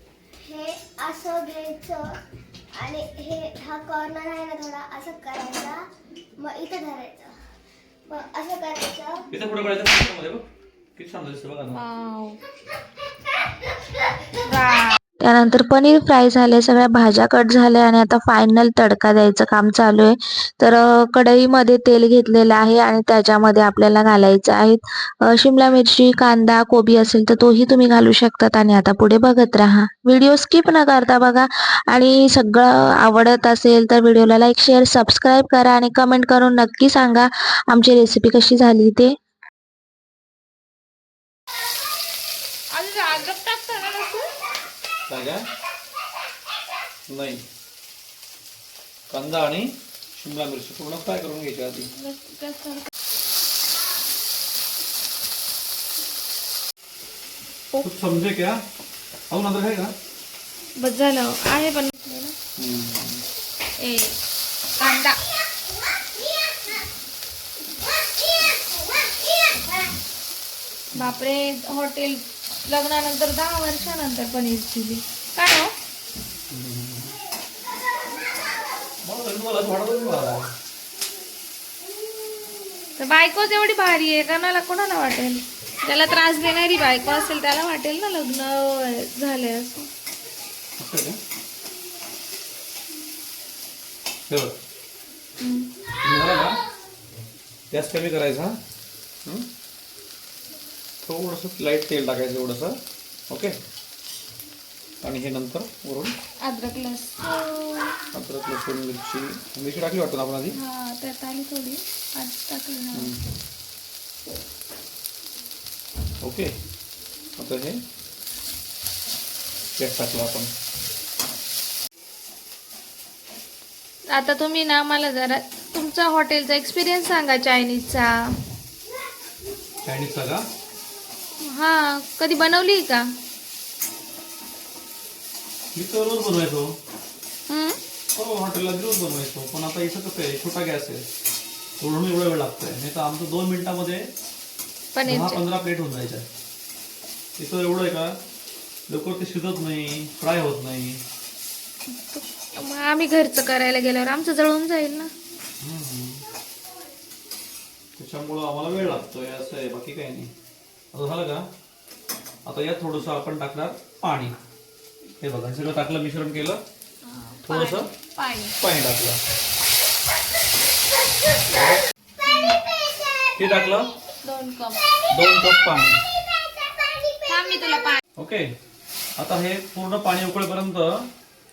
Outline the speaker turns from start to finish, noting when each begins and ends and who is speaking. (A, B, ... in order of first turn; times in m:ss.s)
0:00.4-0:02.2 A
0:02.7-0:05.8 A
0:06.4-0:07.3 A
0:08.1-0:09.3 A
0:09.3-0:10.4 B
0:11.0-0:11.8 B
0:11.7-0:12.4 C
0:14.4-0:15.0 C
0:15.2-0:39.1 D
0:42.7-0:44.3 C
0:45.1-0:45.4 B
0:47.1-0:47.4 B
0:49.1-0:51.9 B
0:51.9-0:52.9 C
0:57.8-0:58.6 B
0:59.3-1:00.0 B
1:00.8-1:02.4 C
1:02.6-1:03.2 B
1:03.8-1:04.2 C
1:04.8-1:05.2 C
1:06.4-1:06.7 A
1:08.3-1:09.7 A
1:10.9-1:15.7 C
1:16.5-1:17.2 B
1:19.0-1:20.5 B
1:23.0-1:29.9 C
1:30.8-1:31.2 B
1:34.3-1:34.6 B
1:35.4-1:35.7 C
1:36.0-1:36.6 B
1:37.7-1:38.6 B
1:41.0-1:43.6 B
1:45.0-1:46.1 B
1:46.4-1:48.0 C
1:48.1-1:50.6 B
1:50.5-1:53.1 C
1:52.9-1:53.2 B
1:56.2-1:56.5 B
1:57.4-1:57.8 B
1:59.8-2:00.5 B
2:04.1-2:08.3 C
2:09.8-2:10.4 B
2:11.4-2:13.0 C
2:15.7-2:16.7 B
2:17.5-2:17.8 C
2:18.1-2:21.0 B
2:21.8-2:24.0 B
2:24.9-2:25.4 C
2:25.0-2:26.3 B
2:27.4-2:28.2 B
2:28.9-2:31.0 B
2:31.9-2:35.1 C
2:35.6-2:36.2 B
2:38.0-2:40.3 B
2:40.9-2:41.5 B
2:42.4-2:44.4 B
2:45.2-2:46.6 B
2:47.0-2:48.6 C
2:47.4-2:47.9 B
2:48.6-2:49.2 B
2:51.5-2:51.8 B
2:52.2-2:52.6 C
2:52.8-2:53.7 A
2:53.4-2:53.9 B
2:54.2-2:54.8 C
2:55.1-2:56.0 B
2:56.2-2:57.8 A
2:57.3-2:58.0 C
2:58.2-2:58.5 B
2:59.2-3:01.1 B